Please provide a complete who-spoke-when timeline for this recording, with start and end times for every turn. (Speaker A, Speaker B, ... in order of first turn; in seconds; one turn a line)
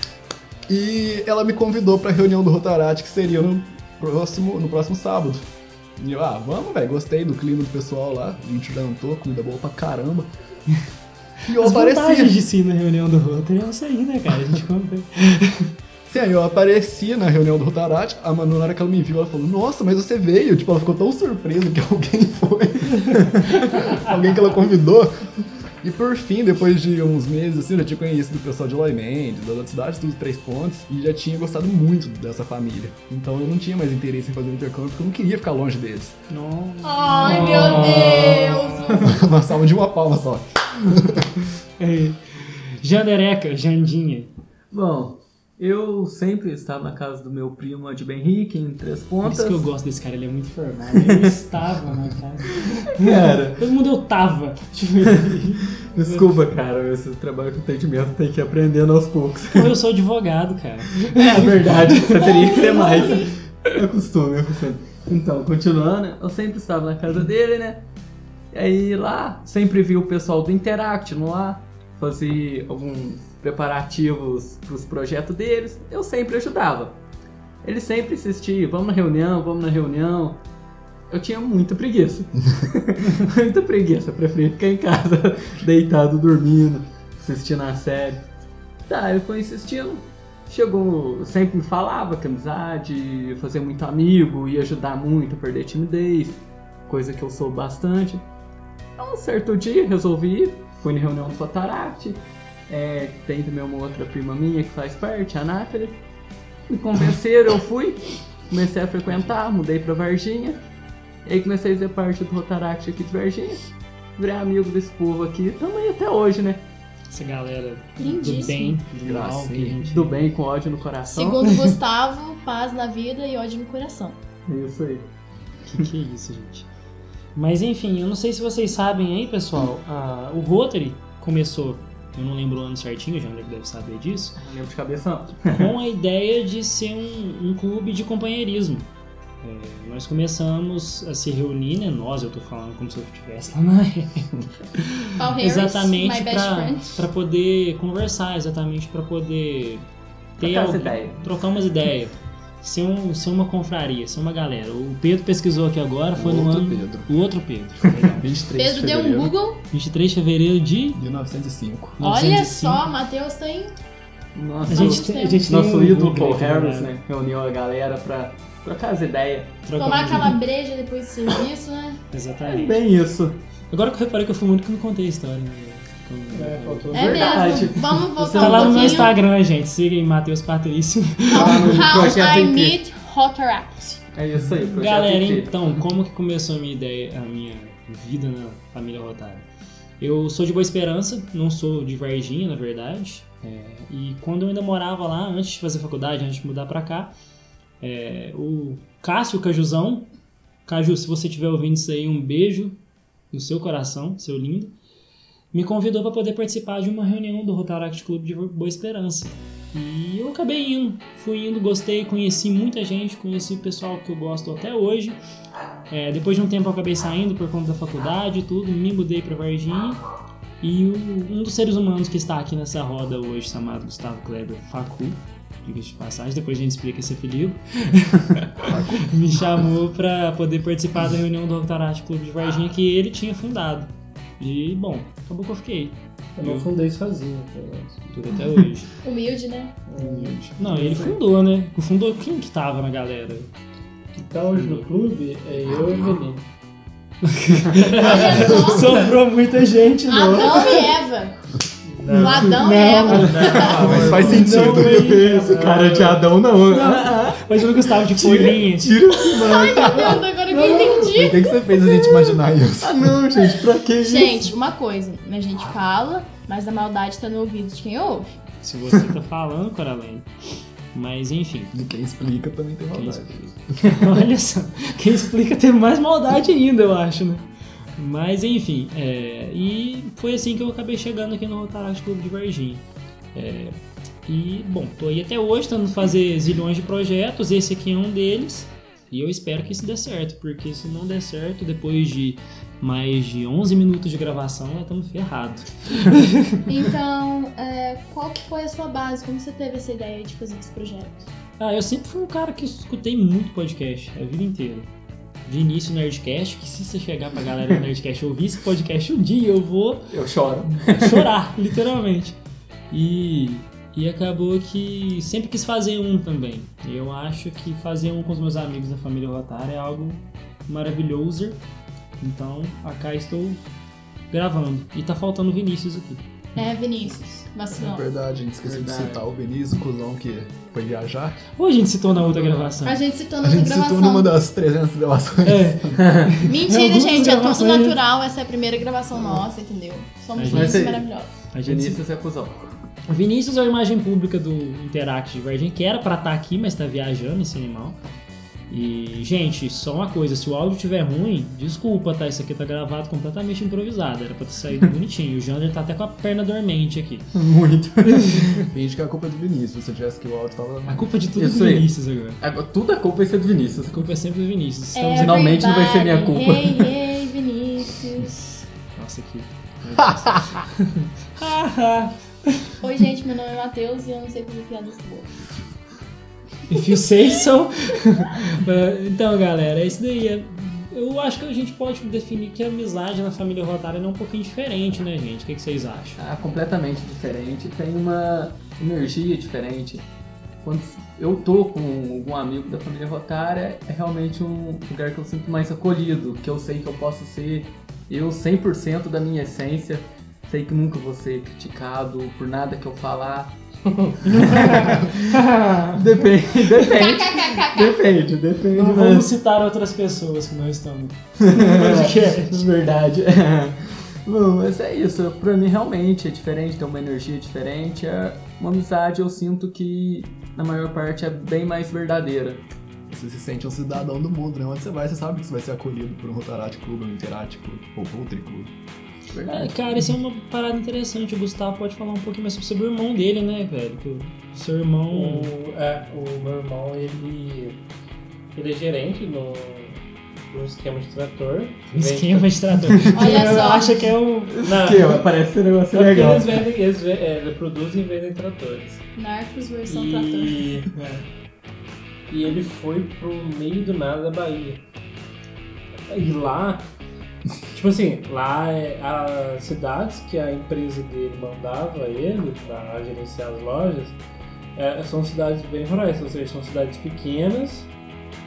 Speaker A: 0.7-5.4
Speaker A: 6.0-10.3
Speaker A: 11.5-12.4
Speaker B: 11.5-15.7
Speaker A: 16.1-25.2
Speaker B: 23.7-24.0
Speaker A: 25.8-36.1
Speaker B: 36.3-39.0
Speaker C: 36.8-39.1
Speaker D: 37.4-38.1
Speaker A: 38.9-41.3
Speaker B: 41.8-44.3
Speaker D: 44.7-49.7
Speaker B: 49.2-56.4
Speaker D: 51.0-51.3
Speaker D: 52.9-53.6
Speaker D: 55.3-59.7
Speaker B: 59.5-62.2
Speaker D: 61.0-67.8
Speaker C: 62.2-63.3
Speaker D: 68.5-77.0
Speaker D: 77.6-80.4
Speaker D: 81.1-88.2
Speaker D: 88.8-98.2
Speaker D: 99.0-106.0
Speaker D: 106.7-110.6
Speaker D: 111.2-113.6
Speaker D: 114.2-116.6
Speaker B: 117.1-120.2
Speaker C: 118.0-118.8
Speaker A: 119.0-119.7
Speaker D: 119.0-121.6
Speaker C: 121.1-124.2
Speaker D: 124.5-125.1
Speaker B: 125.7-126.7
Speaker B: 127.3-134.4
Speaker D: 134.3-135.7
Speaker B: 135.5-138.9
Speaker B: 139.4-149.9
Speaker C: 145.2-147.1
Speaker D: 150.4-151.2
Speaker B: 150.4-158.3
Speaker A: 156.1-157.1
Speaker A: 157.8-159.3
Speaker C: 158.6-159.6
Speaker B: 159.7-161.0
Speaker A: 160.9-162.0
Speaker B: 162.0-162.8
Speaker C: 162.0-163.7
Speaker D: 164.3-169.6
Speaker C: 164.7-165.5
Speaker B: 164.7-166.9
Speaker B: 169.6-170.4
Speaker C: 169.7-172.0
Speaker B: 172.1-172.8
Speaker D: 172.4-173.4
Speaker B: 173.7-177.3
Speaker E: 176.3-177.6
Speaker D: 176.9-179.1
Speaker C: 176.9-179.1
Speaker B: 178.3-181.9
Speaker C: 181.3-184.0
Speaker D: 181.3-182.8
Speaker D: 184.1-185.7
Speaker B: 184.8-189.5
Speaker B: 190.0-197.1
Speaker B: 197.8-200.1
Speaker B: 200.7-202.8
Speaker B: 203.3-204.7
Speaker B: 205.5-215.2
Speaker B: 215.9-220.0
Speaker B: 220.6-236.7
Speaker A: 228.7-229.1
Speaker E: 236.4-238.1
Speaker B: 238.1-238.9
Speaker C: 239.0-239.8
Speaker E: 239.8-241.2
Speaker B: 239.9-243.5
Speaker E: 244.1-246.4
Speaker B: 244.5-244.9
Speaker B: 247.2-250.9
Speaker E: 247.8-248.2
Speaker C: 247.8-249.2
Speaker C: 250.1-251.4
Speaker E: 251.8-254.4
Speaker C: 252.1-254.1
Speaker D: 252.1-264.5
Speaker B: 252.2-255.8
Speaker A: 253.7-255.1
Speaker E: 255.2-256.2
Speaker B: 256.7-259.0
Speaker C: 259.2-261.5
Speaker A: 260.9-263.3
Speaker C: 264.0-268.3
Speaker B: 268.6-270.3
Speaker B: 270.9-271.8
Speaker A: 271.7-273.5
Speaker B: 272.9-296.6
Speaker C: 296.7-301.3
Speaker B: 301.6-304.9
Speaker B: 305.4-310.1
Speaker D: 310.1-311.3
Speaker B: 310.9-312.4
Speaker B: 312.9-321.6
Speaker B: 322.2-323.6
Speaker B: 324.3-326.2
Speaker C: 326.6-328.1
Speaker A: 327.7-331.4
Speaker D: 328.6-329.2
Speaker B: 331.6-333.0
Speaker C: 332.8-334.3
Speaker A: 333.4-336.0
Speaker B: 335.4-338.0
Speaker D: 336.0-336.3
Speaker C: 336.4-341.3
Speaker B: 340.3-340.9
Speaker D: 340.5-341.1
Speaker B: 341.5-342.0
Speaker D: 341.6-342.7
Speaker B: 343.1-348.0
Speaker B: 348.7-357.3
Speaker D: 357.3-358.6
Speaker B: 358.1-358.6
Speaker A: 358.6-361.1
Speaker B: 360.9-362.4
Speaker D: 361.4-364.1
Speaker B: 363.9-365.5
Speaker C: 364.9-368.6
Speaker D: 365.1-367.0
Speaker B: 368.9-372.7
Speaker C: 372.8-375.3
Speaker B: 376.7-386.2
Speaker D: 386.2-390.1
Speaker D: 390.6-403.5
Speaker E: 403.9-404.3
Speaker D: 404.2-409.3
Speaker B: 404.3-406.0
Speaker C: 406.8-408.0
Speaker B: 408.7-412.6
Speaker D: 411.4-422.6
Speaker A: 423.1-428.7
Speaker D: 429.3-429.8
Speaker B: 429.5-435.5
Speaker E: 435.1-437.8
Speaker E: 438.5-442.6
Speaker B: 441.9-444.6
Speaker C: 443.1-444.1
Speaker D: 444.5-446.6
Speaker E: 444.6-445.2
Speaker E: 445.9-449.0
Speaker C: 449.1-450.7
Speaker E: 449.9-451.2
Speaker E: 452.3-454.8
Speaker E: 456.1-456.9
Speaker E: 457.7-464.2
Speaker E: 464.7-467.9